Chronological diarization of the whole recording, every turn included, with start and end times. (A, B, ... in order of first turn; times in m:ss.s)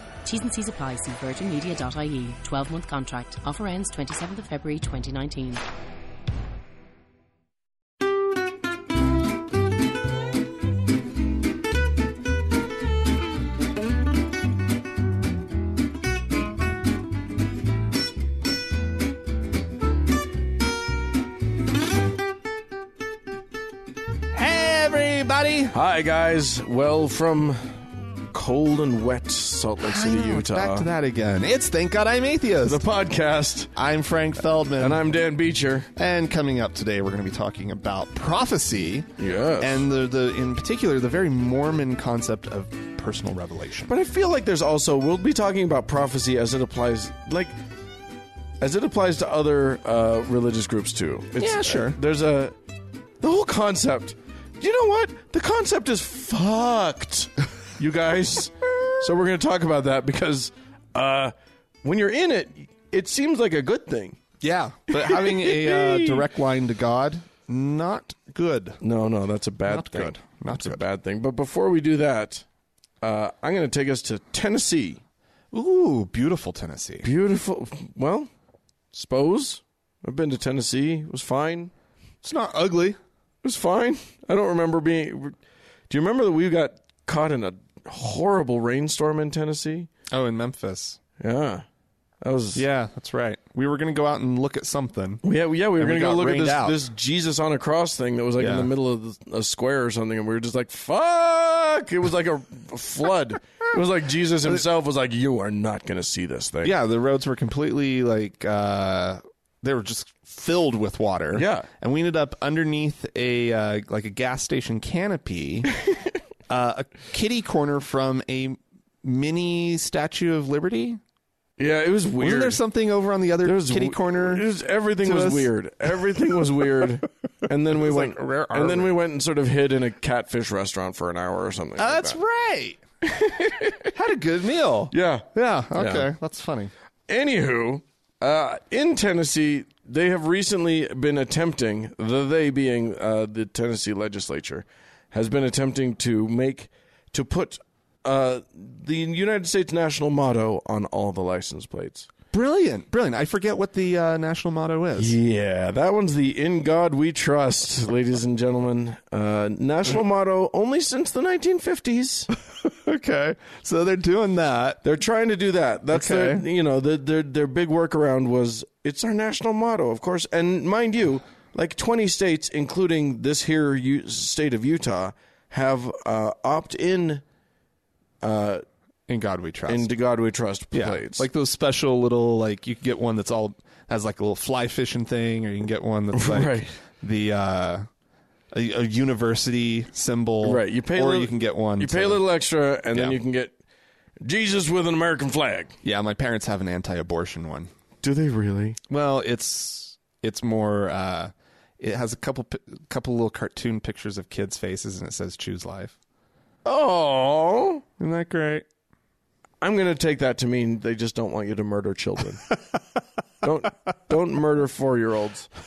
0:00.2-0:05.6 A
0:24.3-0:25.7 B
0:25.7-0:27.8 C
0:28.3-0:30.9 C
0:29.8-0:32.8 B
0:32.6-0:33.7 C
0:33.8-0:35.0 B
0:34.8-0:35.9 C
0:36.0-0:43.9 B
0:39.2-0:39.8 C
0:43.9-0:47.5 C
0:48.6-0:52.6 C
0:51.4-0:52.0 B
0:53.2-1:01.3 C
1:01.8-1:04.2 C
1:04.4-1:08.8 B
1:04.9-1:06.2 C
1:08.8-1:12.4 C
1:09.7-1:10.8 B
1:13.0-1:15.0 C
1:15.5-1:17.1 B
1:17.0-1:18.3 C
1:18.9-1:21.7 C
1:22.2-1:23.0 B
1:23.4-1:25.4 C
1:25.9-1:29.9 C
1:30.1-1:31.0 B
1:31.2-1:31.6 C
1:32.2-1:32.6 C
1:32.6-1:35.2 B
1:35.2-1:46.8 C
1:35.8-1:36.8 B
1:38.4-1:38.7 B
1:46.6-1:55.7 B
1:51.3-1:51.7 C
1:56.5-2:01.0 B
2:01.6-2:02.6 C
2:02.2-2:04.5 B
2:03.4-2:12.2 C
2:05.0-2:05.5 B
2:07.7-2:08.9 B
2:11.8-2:12.8 B
2:13.1-2:13.9 C
2:13.8-2:16.7 B
2:14.9-2:16.1 C
2:17.1-2:32.1 C
2:32.3-2:35.2 B
2:35.0-2:42.3 C
2:42.5-2:44.8 B
2:44.8-2:57.2 C
2:45.9-2:46.4 B
2:58.2-2:58.6 C
2:59.1-2:59.9 B
2:59.7-3:01.3 C
3:00.7-3:07.9 B
3:06.1-3:06.7 C
3:08.5-3:12.2 B
3:10.4-3:13.6 C
3:12.9-3:13.2 B
3:14.2-3:15.8 C
3:15.8-3:17.7 B
3:18.0-3:18.8 C
3:18.9-3:26.0 B
3:26.6-3:27.8 C
3:28.0-3:28.7 B
3:29.6-3:32.5 C
3:33.4-3:35.5 C